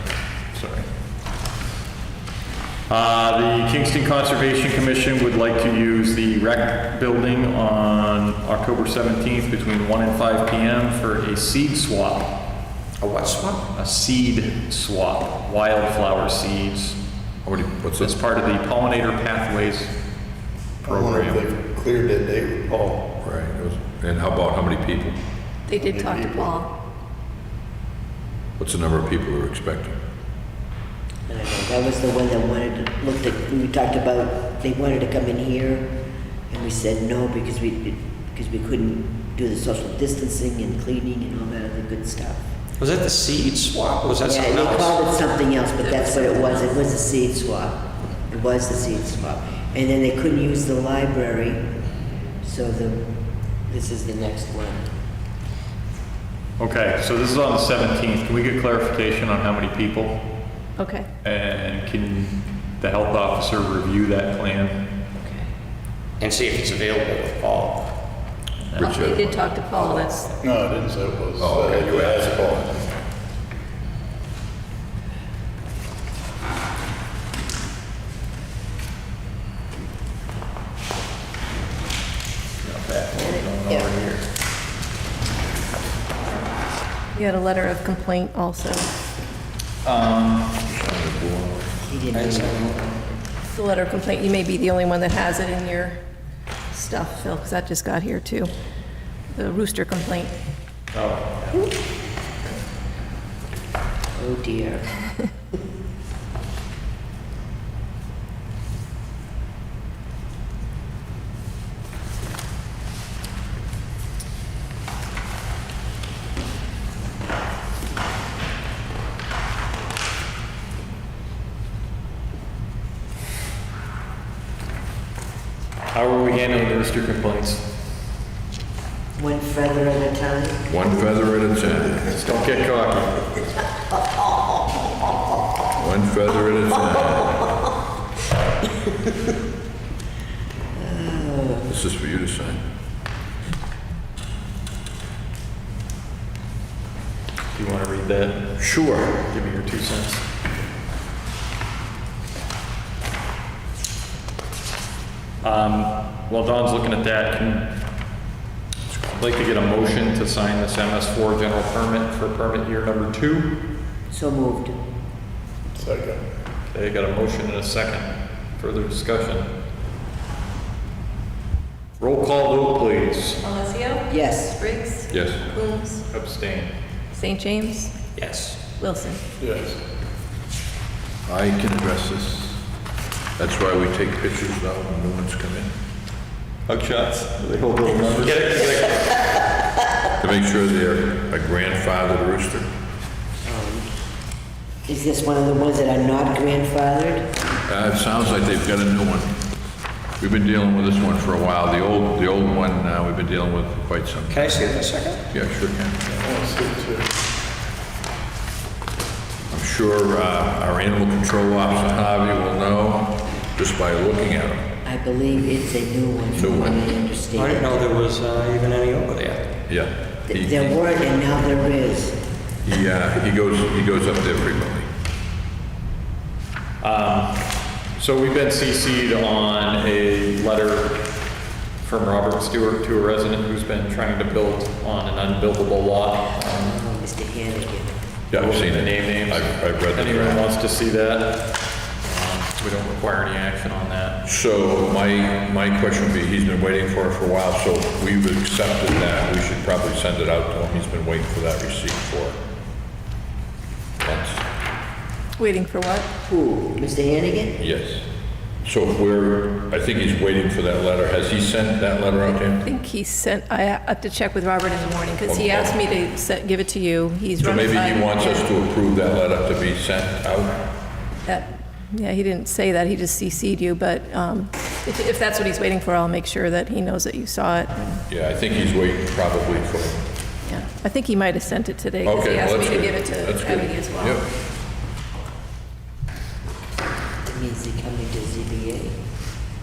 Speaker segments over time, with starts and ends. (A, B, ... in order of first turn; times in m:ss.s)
0:00.5-0:00.9 A
0:02.9-0:12.4 A
0:13.0-0:13.6 B
0:13.7-0:17.0 A
0:17.4-0:18.2 C
0:18.0-0:20.0 A
0:20.8-0:21.5 A
0:20.8-0:23.1 D
0:23.2-0:25.2 C
0:25.7-0:26.7 E
0:25.7-0:26.6 D
0:28.6-0:30.0 C
0:31.3-0:36.0 F
0:36.5-0:42.4 F
0:42.8-0:45.0 B
0:44.2-0:51.7 F
0:45.8-0:46.7 E
0:52.4-0:53.1 F
0:53.7-0:54.9 F
0:56.6-1:00.4 A
1:00.8-1:01.1 E
1:01.2-1:05.0 A
1:06.2-1:07.9 B
1:08.6-1:09.2 A
1:08.8-1:09.6 C
1:08.8-1:10.4 E
1:10.4-1:13.0 D
1:11.4-1:12.6 C
1:22.6-1:24.2 A
1:23.2-1:23.8 F
1:27.2-1:28.9 E
1:29.8-1:30.5 A
1:30.7-1:31.8 C
1:31.8-1:32.8 F
1:32.1-1:32.9 B
1:33.5-1:36.0 E
1:36.7-1:38.5 E
1:39.3-1:40.3 E
1:40.9-1:41.7 A
1:44.1-1:44.9 F
2:05.9-2:07.6 A
2:09.2-2:10.7 F
2:10.7-2:12.1 C
2:12.0-2:13.3 A
2:15.8-2:17.5 C
2:20.8-2:21.8 F
2:21.7-2:22.6 C
2:27.5-2:28.7 A
2:28.6-2:29.2 C
2:29.2-2:30.2 A
2:35.4-2:37.8 A
2:38.9-2:43.6 A
2:44.1-2:44.8 F
2:45.8-2:46.2 D
2:46.7-2:49.5 A
2:52.0-2:53.4 A
2:53.4-2:56.0 E
2:54.1-2:54.6 F
2:55.1-2:55.5 C
2:56.1-2:56.7 A
2:57.1-2:57.9 E
2:58.2-2:58.6 B
2:58.8-2:59.2 E
2:59.4-2:59.8 D
3:01.3-3:02.6 C
3:03.4-3:05.7 C
3:06.7-3:08.9 A
3:08.2-3:09.2 B
3:10.2-3:12.7 C
3:13.4-3:13.9 F
3:14.9-3:17.3 F
3:17.7-3:19.4 C
3:20.2-3:26.0 C
3:24.3-3:25.2 B
3:26.0-3:27.1 D
3:29.5-3:34.7 C
3:34.8-3:37.9 F
3:36.4-3:36.8 C
3:37.4-3:39.5 B
3:39.7-3:40.8 C
3:40.3-3:42.2 F
3:42.6-3:44.9 C
3:46.8-3:51.2 A
3:51.8-3:56.8 A
3:56.4-3:58.0 F
3:58.3-4:00.5 C
3:58.3-4:04.2 A
4:04.2-4:12.4 C
4:14.0-4:14.4 C
4:15.4-4:16.1 E
4:16.2-4:17.6 F
4:17.6-4:18.0 C
4:18.6-4:22.6 C
4:22.6-4:28.6 E
4:25.2-4:25.8 C
4:27.4-4:30.6 C
4:31.3-4:38.0 E
4:38.1-4:40.0 C
4:40.4-4:44.2 E
4:42.0-4:44.2 C
4:47.2-4:49.0 F